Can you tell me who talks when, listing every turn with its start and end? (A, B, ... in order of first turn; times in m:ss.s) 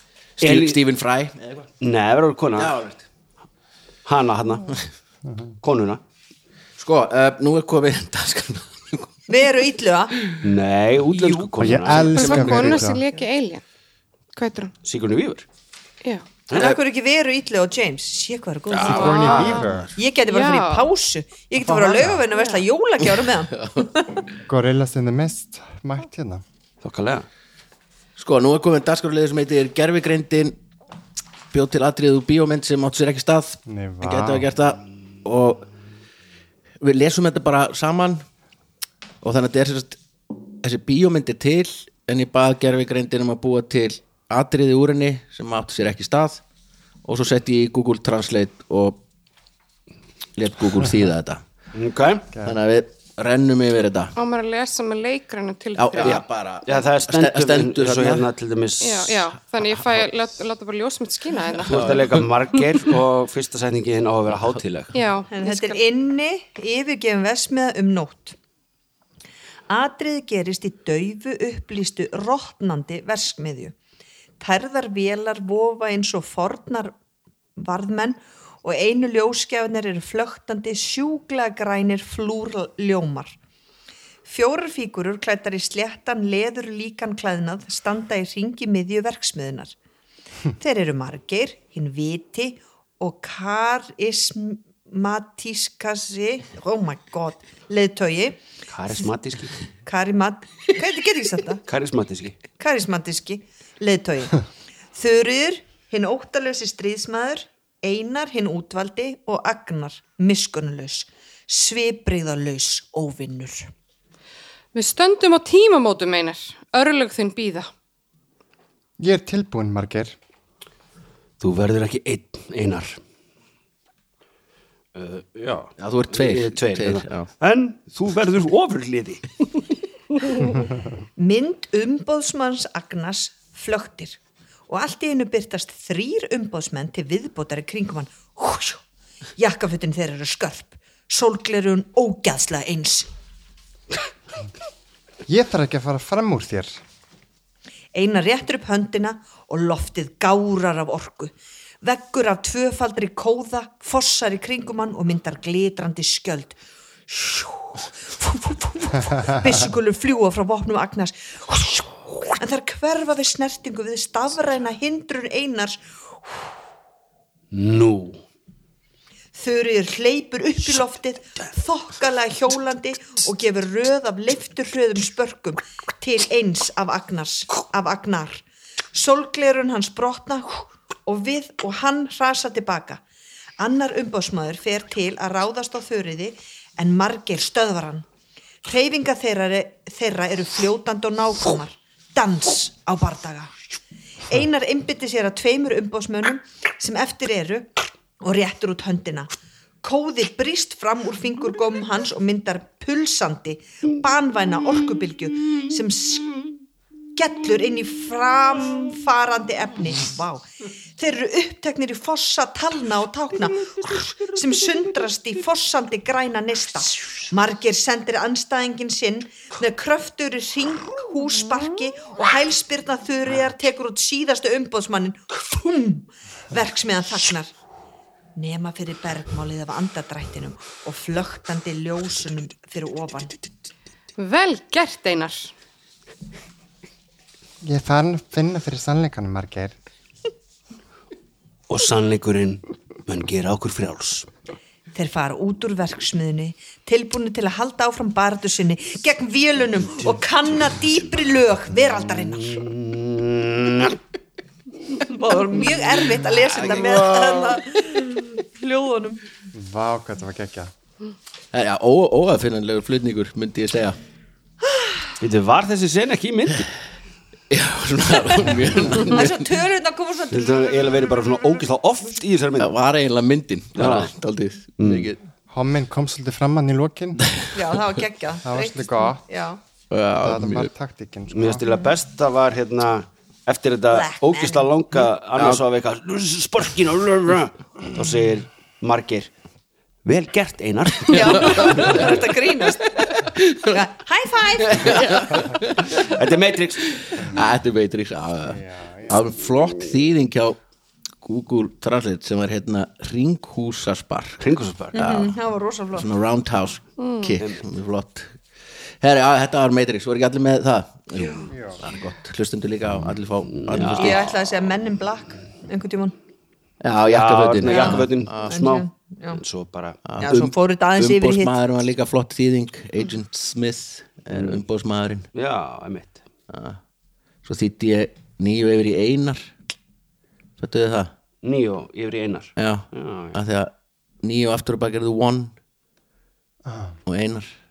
0:00.4-0:01.7 A
0:00.4-0:00.8 B
0:01.8-0:02.7 B
0:02.6-0:03.0 A
0:04.0-0:04.7 B
0:05.2-0:05.5 C
0:05.6-0:06.0 B
0:06.8-0:09.1 A
0:09.3-0:10.1 D
0:10.4-0:12.8 B
0:11.1-0:11.4 A
0:11.6-0:13.0 C
0:12.1-0:13.6 E
0:14.3-0:14.7 E
0:14.8-0:15.4 B
0:16.5-0:24.0 D
0:16.5-0:16.8 A
0:18.8-0:19.2 A
0:18.8-0:19.6 E
0:18.8-0:19.9 C
0:19.0-0:19.6 B
0:20.3-0:20.9 E
0:21.6-0:22.2 C
0:22.3-0:22.6 E
0:24.5-0:26.4 C
0:26.8-0:27.2 B
0:28.2-0:30.6 A
0:31.5-0:35.7 A
0:33.6-0:34.5 C
0:36.8-0:38.2 A
0:39.2-0:40.0 A
0:40.6-0:46.4 A
0:47.0-0:49.0 A
0:50.4-0:51.4 A
0:51.7-0:52.3 B
0:52.4-0:54.1 A
0:54.2-0:56.2 E
0:55.8-0:58.3 A
0:56.0-0:59.3 B
0:58.8-1:02.0 E
1:01.6-1:05.0 B
1:01.7-1:02.2 A
1:04.9-1:05.8 E
1:05.3-1:08.4 D
1:09.7-1:13.7 D
1:14.4-1:16.9 D
1:17.6-1:23.4 D
1:24.2-1:29.7 D
1:30.6-1:38.4 D
1:38.7-1:39.6 B
1:39.8-1:41.6 D
1:41.6-1:42.4 B
1:42.6-1:44.4 D
1:44.9-1:53.7 D
1:54.7-1:57.7 E
1:59.0-2:00.2 C
2:01.4-2:03.0 B
2:04.9-2:09.3 B
2:05.8-2:07.3 A
2:11.2-2:18.8 D
2:19.4-2:23.1 D
2:25.3-2:26.8 C
2:27.9-2:46.4 D
2:47.5-2:48.2 B
2:49.3-3:03.0 D
3:03.6-3:08.0 D
3:08.6-3:13.5 D
3:14.3-3:19.3 D
3:19.8-3:26.4 D
3:27.1-3:47.5 D
3:48.4-3:53.3 D
3:54.2-3:55.5 E
3:57.6-3:59.7 C
4:01.7-4:04.3 B
4:04.9-4:12.7 D
4:12.2-4:14.0 B
4:15.0-4:19.2 D
4:16.5-4:17.4 A
4:19.5-4:20.7 C
4:21.5-4:24.0 A
4:24.7-4:25.1 D
4:25.2-4:26.7 B
4:27.5-4:29.5 A
4:28.9-4:31.6 D
4:30.3-4:32.7 B
4:32.6-4:35.2 A
4:33.8-4:34.1 B
4:34.8-4:35.1 B
4:35.5-4:37.2 C
4:37.5-4:39.6 D
4:38.4-4:39.2 C
4:39.9-4:40.7 A
4:40.2-4:41.7 C
4:41.3-4:49.3 B
4:43.9-4:44.7 D
4:45.3-4:45.6 A
4:50.0-4:52.2 B
4:51.1-4:53.0 D
4:51.6-4:52.0 A
4:53.2-4:53.8 A
4:53.7-4:55.5 D
4:54.7-4:56.2 A
4:56.0-4:56.8 B
4:57.0-5:00.6 A
4:58.5-4:59.2 C
5:01.2-5:04.4 A
5:04.4-5:05.0 B
5:04.9-5:05.3 A
5:04.9-5:06.1 D
5:05.9-5:08.4 A
5:07.0-5:07.4 E
5:09.0-5:14.4 A
5:11.5-5:11.8 C
5:13.5-5:14.2 B
5:14.0-5:16.1 D
5:16.8-5:18.5 A
5:17.1-5:20.0 B
5:17.6-5:19.4 D
5:20.1-5:25.3 A
5:20.2-5:21.6 D
5:24.3-5:24.6 B
5:25.3-5:26.2 B
5:26.5-5:26.8 A
5:27.4-5:29.5 A
5:30.6-5:31.1 A
5:31.4-5:33.4 B
5:32.6-5:35.5 A
5:36.6-5:37.0 C
5:37.0-5:37.5 A